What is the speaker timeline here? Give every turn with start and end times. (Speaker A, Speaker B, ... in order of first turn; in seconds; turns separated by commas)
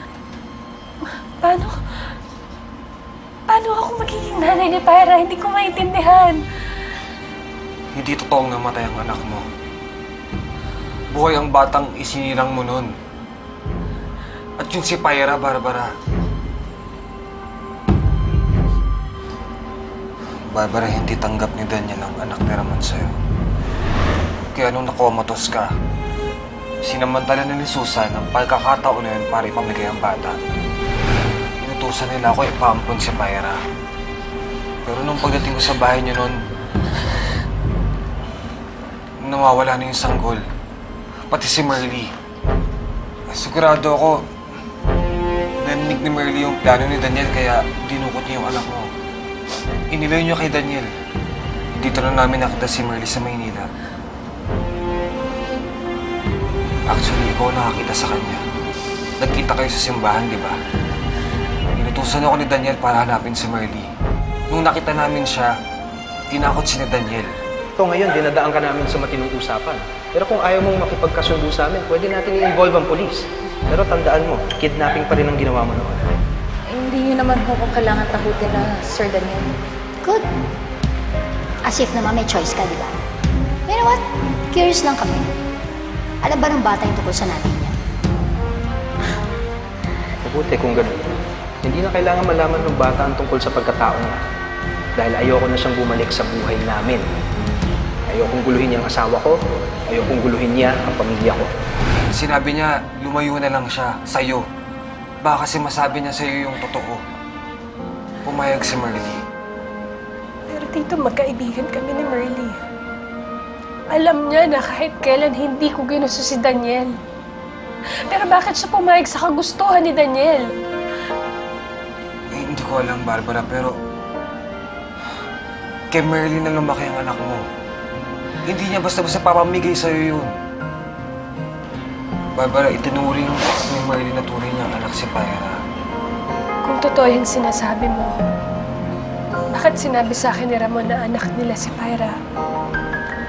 Speaker A: 1.4-1.8, Speaker A: 3.5-6.4, Speaker B: 7.9-9.5, Speaker B: 11.1-12.9, Speaker B: 14.6-15.9, Speaker B: 20.5-23.2, Speaker B: 24.5-25.8, Speaker B: 26.8-30.4, Speaker B: 31.6-33.6, Speaker B: 34.9-36.4, Speaker B: 39.2-40.5, Speaker B: 41.3-42.1, Speaker B: 43.3-44.2, Speaker B: 45.6-48.9, Speaker B: 49.9-50.9, Speaker B: 51.8-53.7, Speaker B: 56.9-58.4, Speaker B: 59.2-60.6, Speaker B: 61.7-63.9, Speaker B: 64.5-65.5, Speaker B: 66.3-67.3, Speaker C: 67.8-76.1, Speaker D: 76.7-79.5, Speaker E: 81.7-83.0, Speaker E: 83.7-85.3, Speaker E: 86.2-87.8, Speaker C: 90.2-91.0, Speaker C: 91.6-94.2, Speaker C: 95.0-97.0, Speaker C: 98.1-101.5, Speaker B: 102.1-104.5, Speaker B: 105.2-107.0, Speaker B: 108.2-109.2, Speaker A: 110.5-112.6, Speaker A: 113.9-117.0, Speaker A: 118.1-120.5, Speaker B: 122.3-123.8, Speaker B: 125.9-127.5, Speaker B: 128.5-130.3, Speaker B: 132.4-135.6, Speaker A: 136.6-138.2, Speaker A: 139.5-142.2